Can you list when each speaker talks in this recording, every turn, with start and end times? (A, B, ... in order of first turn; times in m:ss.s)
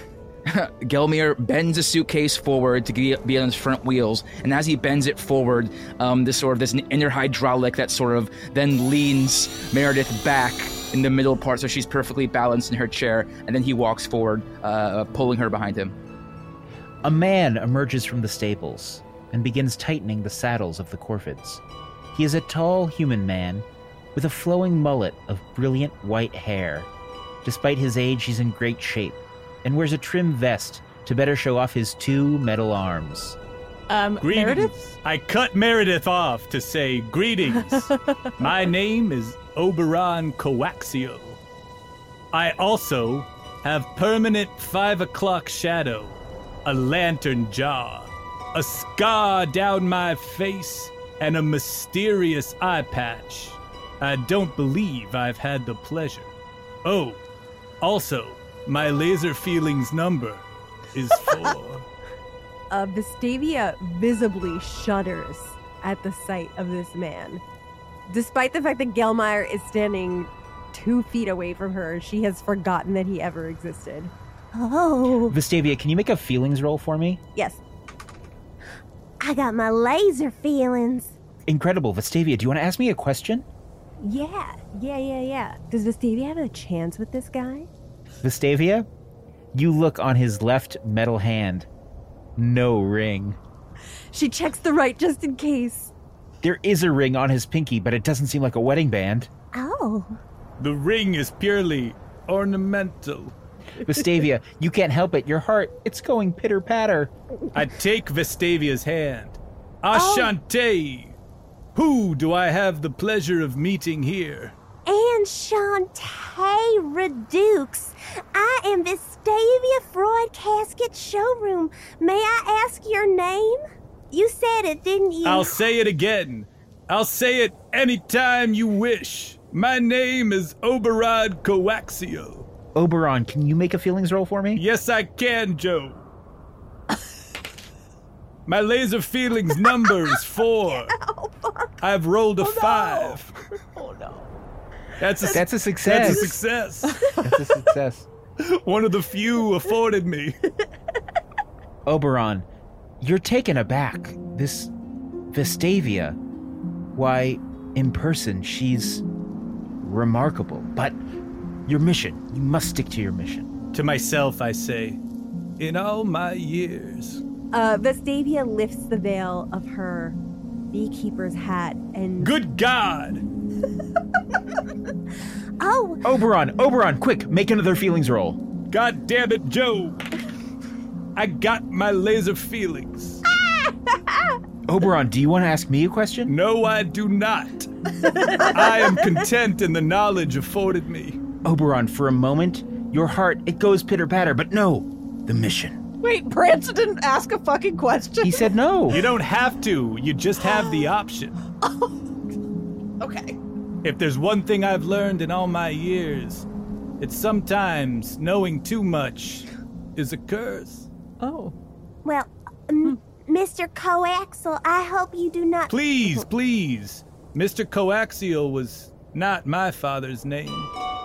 0:00.4-0:16.0 A
0:17.0-0:21.6 B
0:22.1-0:26.9 B
0:27.4-0:33.4 B
0:33.9-0:34.7 C
0:34.2-0:41.4 D
0:42.3-0:56.3 D
0:56.8-0:57.2 D
0:57.8-1:01.8 D
1:02.7-1:07.4 E
1:08.1-1:14.1 E
1:14.5-1:15.4 F
1:15.3-1:17.2 B
1:17.4-1:17.6 E
1:19.2-1:21.2 F
1:21.5-1:23.4 B
1:24.0-1:27.7 E
1:28.2-1:28.9 B
1:29.5-1:31.7 B
1:32.4-1:33.4 B
1:34.1-1:35.9 E
1:36.4-1:39.3 B
1:39.5-1:40.2 F
1:40.6-1:43.3 D
1:43.8-1:47.1 B
1:47.5-1:51.2 D
1:49.9-1:50.3 F
1:51.7-1:54.5 D
1:54.9-2:03.6 F
2:04.1-2:05.7 F
2:05.2-2:12.4 D
2:12.7-2:14.6 B
2:14.5-2:16.0 D
2:18.5-2:20.9 D
2:21.0-2:21.7 E
2:21.8-2:23.3 D
2:22.4-2:23.2 C
2:23.7-2:24.3 C
2:25.0-2:27.0 D
2:25.3-2:26.4 B
2:26.0-2:27.4 C
2:27.2-2:28.1 B
2:28.4-2:30.3 D
2:31.8-2:32.4 B
2:33.0-2:34.7 B
2:35.3-2:36.2 B
2:37.0-2:39.0 B
2:39.8-2:41.0 B
2:41.7-2:43.5 B
2:43.7-2:45.0 D
2:45.6-2:47.2 D
2:47.5-2:50.2 E
2:50.7-2:52.4 E
2:52.2-2:53.2 D
2:55.6-2:56.0 F
2:56.0-2:58.4 B
2:58.7-3:00.0 D
3:01.2-3:03.2 D
3:04.7-3:06.3 B
3:06.3-3:07.7 D
3:08.0-3:08.8 C
3:08.3-3:11.2 D
3:11.4-3:15.8 B
3:16.0-3:19.0 C
3:18.2-3:19.0 B
3:18.9-3:21.3 D
3:20.4-3:20.9 C
3:21.5-3:22.1 C
3:23.0-3:23.4 C
3:23.8-3:26.4 D
3:27.0-3:30.9 D
3:31.2-3:31.5 C
3:32.0-3:36.2 F
3:35.7-3:40.7 D